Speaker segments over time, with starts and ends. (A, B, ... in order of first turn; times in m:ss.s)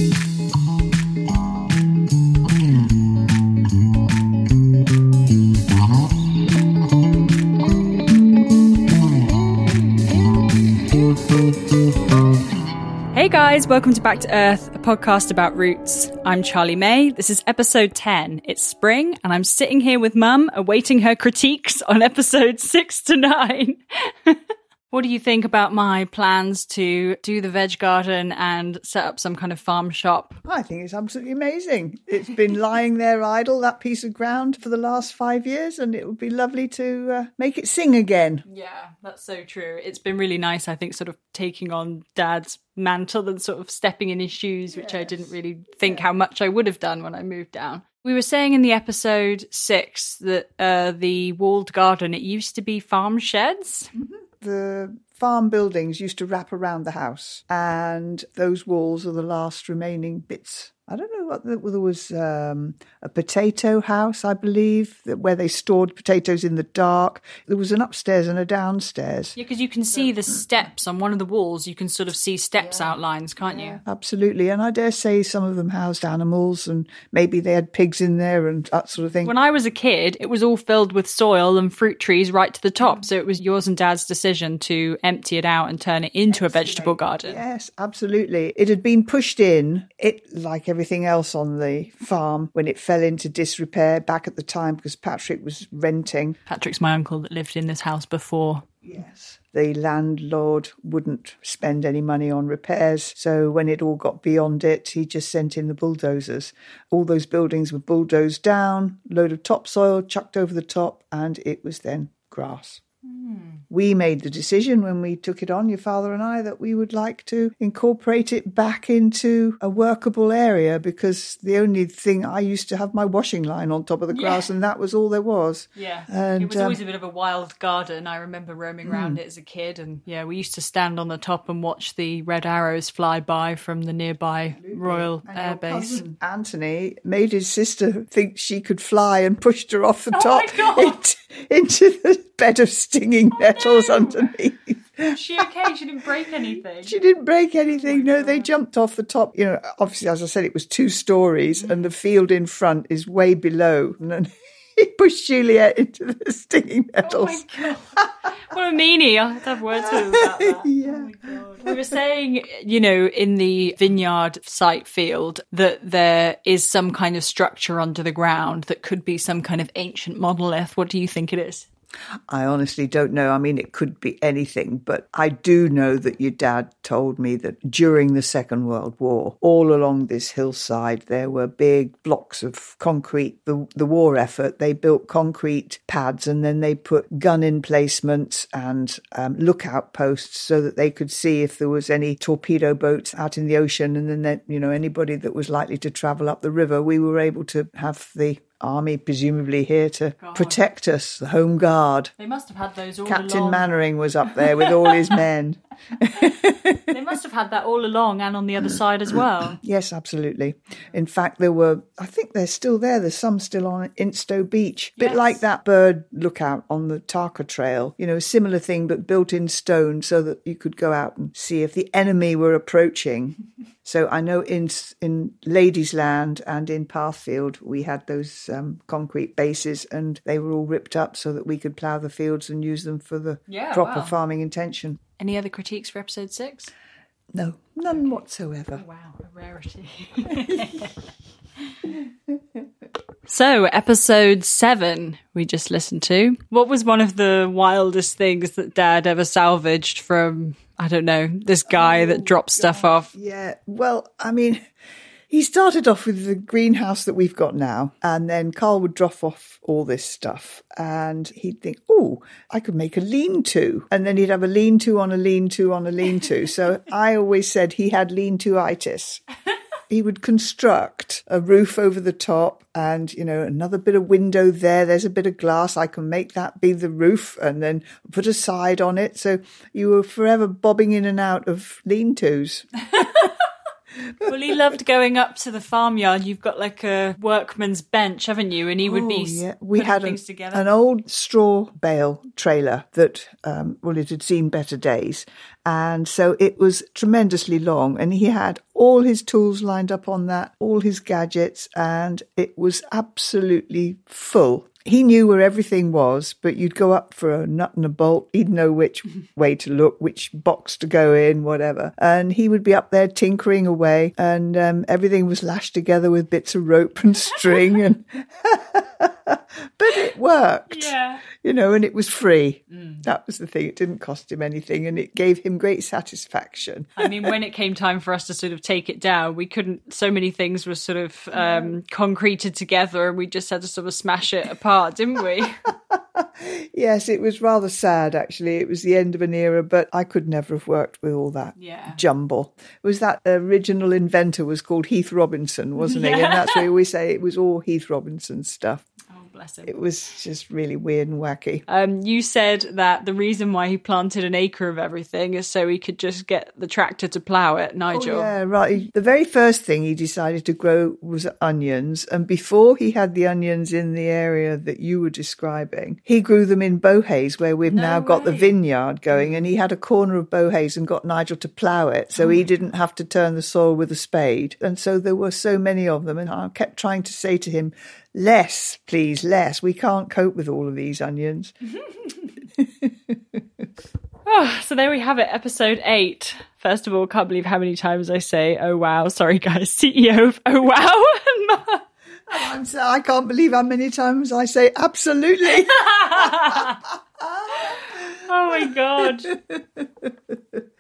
0:13.1-0:24.4 A
0:24.9-0:30.4 A
0:30.4-0:38.4 B
0:38.4-0:53.9 A
0:44.7-0:46.1 B
0:53.9-1:09.4 B
1:09.4-1:13.8 A
1:09.9-1:10.3 B
1:12.6-1:19.3 B
1:19.2-1:27.4 A
1:22.8-1:23.1 B
1:26.3-1:36.4 B
1:36.4-1:38.6 A
1:38.8-1:52.8 B
1:53.0-1:53.6 A
1:53.7-2:06.8 B
2:04.1-2:04.5 A
2:05.8-2:16.0 A
2:08.8-2:09.2 B
2:14.5-2:25.2 B
2:20.1-2:21.0 A
2:23.4-2:24.3 A
2:25.1-2:27.0 A
2:26.8-2:38.1 B
2:27.6-2:28.5 A
2:37.0-2:51.7 A
2:39.8-2:41.7 B
2:52.3-3:22.1 B
3:20.2-3:20.6 A
3:22.2-3:23.7 A
3:23.0-3:26.9 B
3:24.2-3:25.0 A
3:26.9-3:29.6 A
3:29.5-3:55.0 B
3:35.0-3:35.4 A
3:53.5-3:54.2 A
3:55.2-3:56.7 A
3:57.3-3:58.8 B
3:58.7-4:00.9 A
4:03.2-4:13.1 A
4:11.7-4:14.6 B
4:15.3-4:29.2 B
4:29.9-4:42.7 B
4:43.0-4:43.3 A
4:44.2-4:44.6 B
4:44.2-4:50.7 A
4:48.8-5:27.3 B
5:20.7-5:21.2 A
5:22.7-5:23.0 A
5:27.0-5:35.6 A
5:31.3-5:31.8 B
5:35.7-5:48.8 B
5:41.6-5:42.0 A
5:45.8-5:46.7 A
5:49.1-5:49.8 A
5:49.6-5:51.6 B
5:51.7-5:58.3 A
5:57.9-6:21.5 B
6:07.7-6:08.6 A
6:09.1-6:09.5 A
6:12.2-6:12.4 A
6:21.8-6:22.3 A
6:22.6-6:23.4 B
6:24.2-6:31.8 A
6:32.3-6:40.6 B
6:35.5-6:36.8 A
6:37.6-6:39.3 A